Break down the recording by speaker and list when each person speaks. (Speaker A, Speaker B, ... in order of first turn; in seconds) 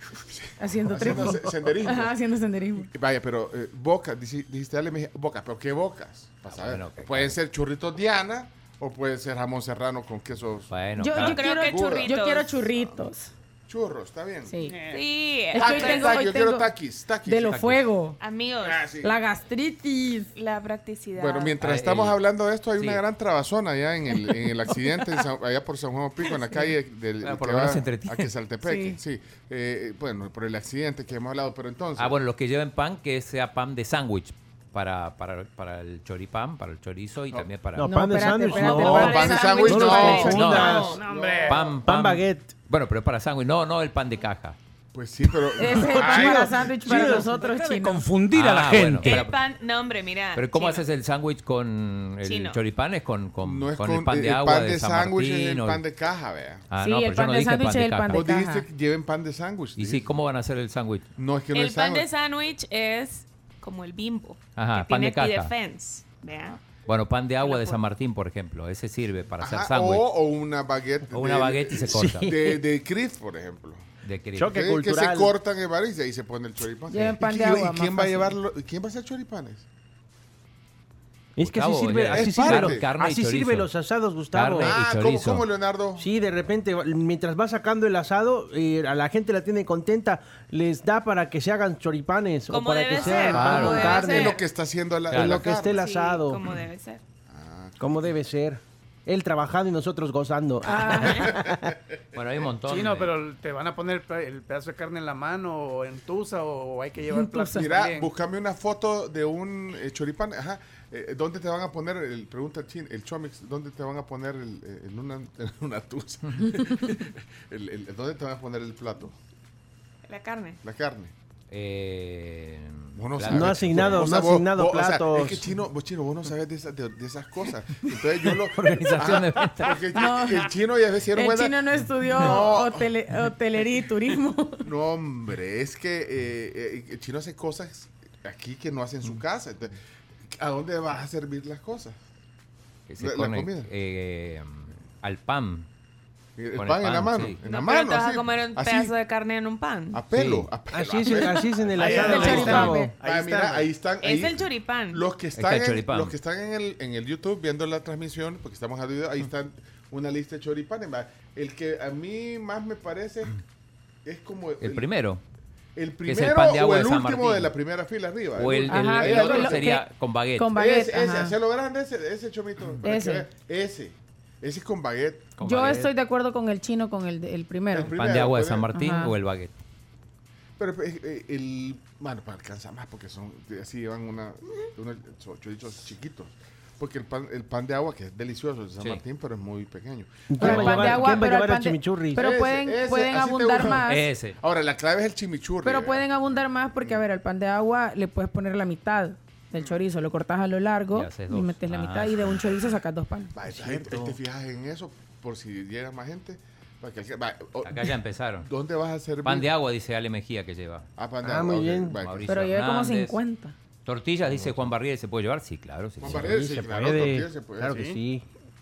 Speaker A: 0.3-2.2, 2.9-12.1, 12.7-13.0, 13.7-14.7, 15.6-17.7, 18.6-19.2, 21.1-32.2, 38.6-41.8, 44.9-47.0, 53.4-56.6, 58.1-60.2, 61.2-62.1, 69.4-73.9, 74.5-79.7, 82.1-82.9, 84.6-86.1, 93.2-95.8, 97.3-98.1, 107.5-119.2, 120.6-121.1, 123.0-132.9, 134.6-139.7, 140.3-142.0, 143.0-143.7, 146.4-148.9, 149.9-163.4, 164.1-164.9, 165.8-169.8, 170.5-175.3, 177.7-178.7, 180.6-191.0, 192.2-196.1, 203.3-209.5, 211.0-212.3, 216.0-218.0
Speaker B: 0.6-2.9, 11.0-13.3, 14.5-14.8, 15.5-16.7, 17.3-18.2, 19.0-20.3, 37.8-40.3, 45.6-48.1, 56.8-58.7, 76.9-78.4, 100.7-101.4, 107.1-107.7, 129.9-130.5, 131.2-134.7, 151.8-152.9, 168.7-169.8, 170.4-171.3, 172.8-173.3, 175.4-177.9, 178.7-179.1, 190.4-194.1, 195.6-203.3, 212.3-213.5
Speaker C: 1.0-1.4, 37.8-41.0, 41.8-42.5, 45.6-47.7, 71.9-72.6, 74.4-75.3, 81.4-84.8, 86.0-94.3, 95.1-96.4, 97.8-101.8, 123.3-125.5, 150.7-152.9, 190.3-192.2, 203.4-204.2, 211.2-212.0, 216.1-218.2
Speaker D: 6.5-7.3, 10.7-11.4, 17.5-17.8, 21.6-22.2, 22.8-23.0, 27.2-28.3, 32.0-37.9, 40.2-40.9, 41.5-44.6, 48.3-49.4, 50.4-55.8, 56.7-58.3, 59.8-61.1, 64.6-65.5, 66.8-70.1, 71.1-72.3, 74.0-74.5, 81.4-83.7, 84.3-85.5, 93.2-93.9, 95.1-95.4, 102.1-103.2, 121.5-124.1, 128.5-129.8, 142.9-145.7, 146.6-147.4, 150.1-150.5, 155.3-156.2, 164.6-165.2, 166.1-167.5, 168.3-170.5, 175.4-175.9, 177.8-179.6, 190.4-191.2, 193.8-194.4, 200.9-202.5, 207.6-208.5, 209.2-210.9, 212.0-213.2, 213.8-216.3
Speaker E: 11.2-12.7, 14.9-16.3, 18.2-18.9, 20.4-21.6, 38.8-40.8, 49.0-50.9, 52.2-52.6, 61.5-66.6, 67.4-67.8, 92.5-94.4, 95.6-97.0, 120.1-120.6, 147.4-150.0, 154.0-155.0
Speaker F: 14.7-15.0, 40.8-41.8, 47.7-49.1, 102.6-108.1, 151.8-153.7